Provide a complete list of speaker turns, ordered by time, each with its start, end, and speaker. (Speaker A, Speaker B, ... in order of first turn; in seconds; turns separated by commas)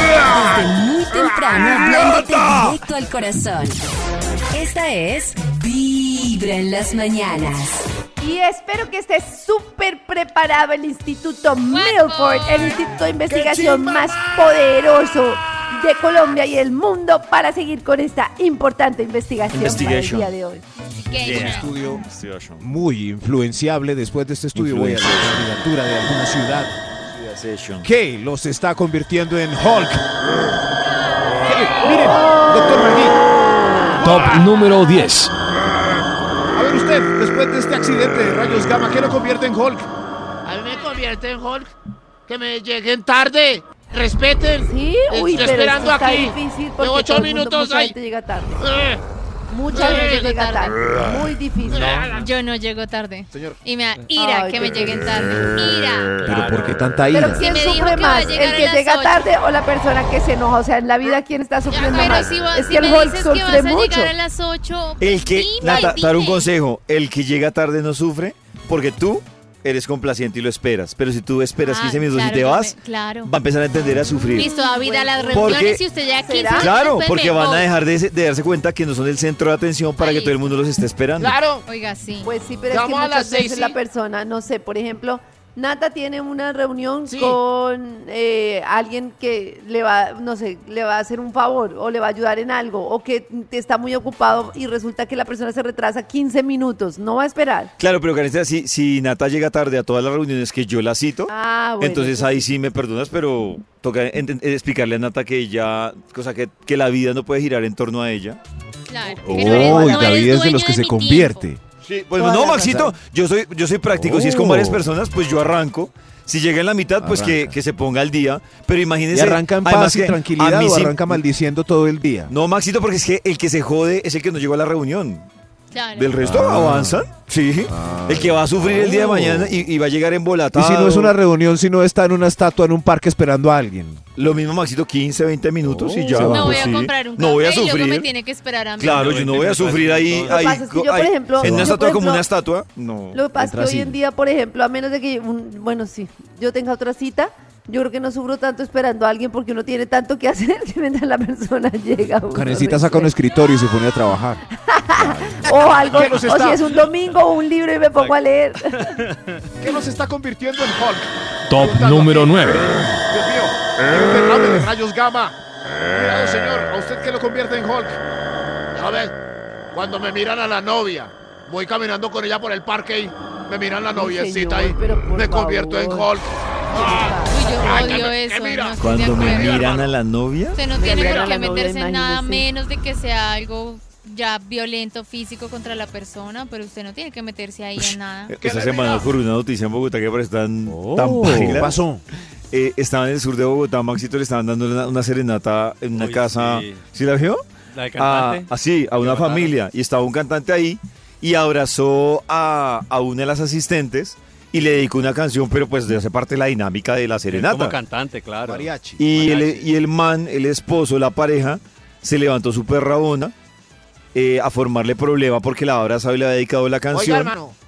Speaker A: 0.2-3.8, Speaker B: 1.6-2.8, Speaker A: 4.5-7.9, Speaker C: 8.2-20.6, Speaker D: 11.7-12.8, Speaker E: 13.3-14.2, Speaker B: 19.5-20.3, Speaker D: 20.8-21.8, Speaker B: 21.2-22.7, Speaker F: 21.2-22.0, Speaker F: 22.6-26.8, Speaker B: 24.6-25.5, Speaker B: 27.1-27.9, Speaker F: 27.8-30.1, Speaker D: 31.1-31.5, Speaker F: 31.5-33.2, Speaker G: 34.0-35.3, Speaker F: 36.5-39.9, Speaker E: 40.5-41.7, Speaker E: 42.3-47.9, Speaker C: 44.7-48.6, Speaker E: 48.6-49.0, Speaker C: 49.5-52.1, Speaker D: 49.7-50.8, Speaker E: 49.7-50.2, Speaker E: 51.7-52.3, Speaker D: 52.0-56.3, Speaker C: 54.1-55.4, Speaker H: 56.2-56.8, Speaker F: 56.2-57.5, Speaker C: 57.1-64.1, Speaker D: 57.2-59.3, Speaker D: 61.7-66.5, Speaker B: 65.0-74.5, Speaker D: 71.6-73.3, Speaker D: 74.3-77.7, Speaker C: 74.4-76.8, Speaker B: 75.3-75.8, Speaker B: 76.5-81.4, Speaker D: 80.0-80.4, Speaker E: 81.2-81.7, Speaker D: 81.7-82.3, Speaker C: 82.2-97.7, Speaker E: 82.7-83.8, Speaker E: 87.1-87.4, Speaker B: 97.8-108.4, Speaker C: 101.3-102.5, Speaker D: 108.9-111.5, Speaker C: 109.0-110.1, Speaker F: 109.2-111.6, Speaker B: 111.8-121.2, Speaker C: 112.2-112.9, Speaker F: 112.5-112.9, Speaker F: 113.9-114.9, Speaker F: 117.0-117.6, Speaker F: 119.1-122.3, Speaker B: 122.3-125.3, Speaker D: 125.7-126.2, Speaker B: 126.0-131.2, Speaker F: 126.2-127.1, Speaker F: 127.7-129.7, Speaker F: 130.5-134.0, Speaker B: 134.2-138.1, Speaker F: 135.6-136.8, Speaker D: 136.2-139.1, Speaker B: 138.8-143.2, Speaker H: 138.8-140.6, Speaker C: 140.2-142.3, Speaker F: 141.4-141.8, Speaker C: 143.1-153.1, Speaker F: 143.3-144.0, Speaker F: 152.3-154.4, Speaker C: 154.6-159.0, Speaker F: 155.0-156.7, Speaker H: 158.0-159.4, Speaker F: 159.6-165.1, Speaker G: 161.5-162.8, Speaker E: 164.1-165.3, Speaker F: 165.9-168.0, Speaker E: 165.9-166.7, Speaker E: 168.7-169.2, Speaker E: 169.7-179.9, Speaker C: 173.9-176.1, Speaker C: 176.7-177.9, Speaker D: 177.3-179.8, Speaker B: 178.8-180.6, Speaker D: 180.5-188.4, Speaker C: 180.8-182.5, Speaker E: 180.8-181.3, Speaker B: 187.8-191.8, Speaker E: 188.4-189.1, Speaker A: 190.9-191.6, Speaker F: 190.9-192.0, Speaker B: 192.5-197.4, Speaker H: 195.9-196.8, Speaker H: 197.7-199.6, Speaker B: 198.0-207.8, Speaker H: 207.3-209.7, Speaker F: 208.4-209.1, Speaker B: 209.0-213.3, Speaker B: 214.1-217.3, Speaker E: 216.9-217.6